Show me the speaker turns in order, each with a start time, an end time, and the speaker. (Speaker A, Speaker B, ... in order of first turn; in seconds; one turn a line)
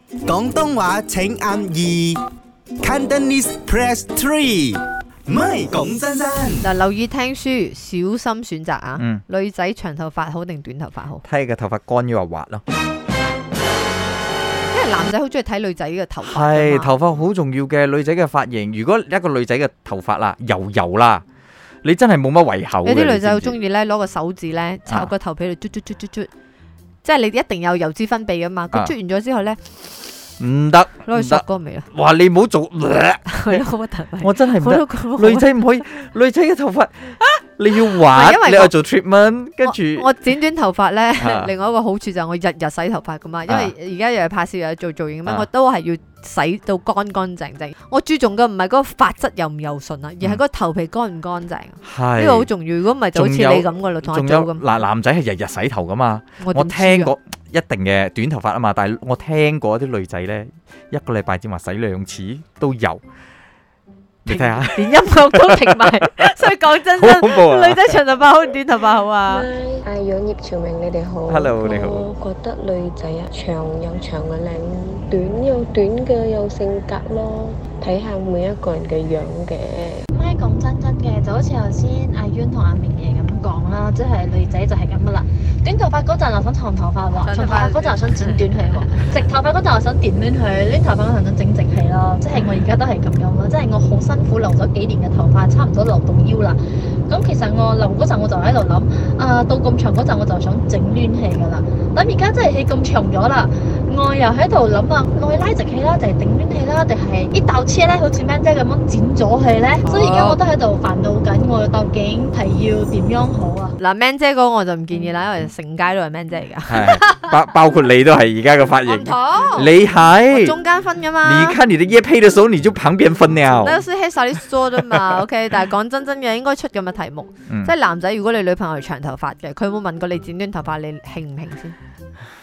Speaker A: 0.3-2.2
Speaker A: 2.8-6.6
Speaker B: 6.6-11.2
Speaker C: 9.0-9.2
Speaker C: 11.2-12.6
Speaker B: 14.7-16.9
Speaker C: 16.2-21.2
Speaker C: 21.8-23.6
Speaker B: 22.8-26.3
Speaker B: 27.0-29.6
Speaker C: 30.4-33.6
Speaker B: 31.1-31.9
Speaker B: 33.3-35.5
Speaker C: 34.2-40.1
Speaker B: 37.9-38.7
Speaker B: 39.6-54.6
Speaker C: 41.2-41.5
Speaker C: 43.5-43.7
Speaker C: 51.8-52.5
Speaker C: 53.1-63.0
Speaker B: 56.4-57.1
Speaker C: 64.2-65.9
Speaker B: 64.3-69.5
Speaker C: 67.0-67.8
Speaker D: 69.2-80.0
Speaker C: 71.3-72.1
Speaker E: 80.1-113.8
Speaker B: 87.2-89.1
Speaker B: 109.8-110.4
Speaker B: 113.8-117.3
Speaker C: 116.7-120.6
Speaker B: 118.9-119.7
Speaker B: 120.3-121.6
Speaker C: 121.2-123.8
Speaker B: 123.5-131.8
Speaker C: 127.5-127.7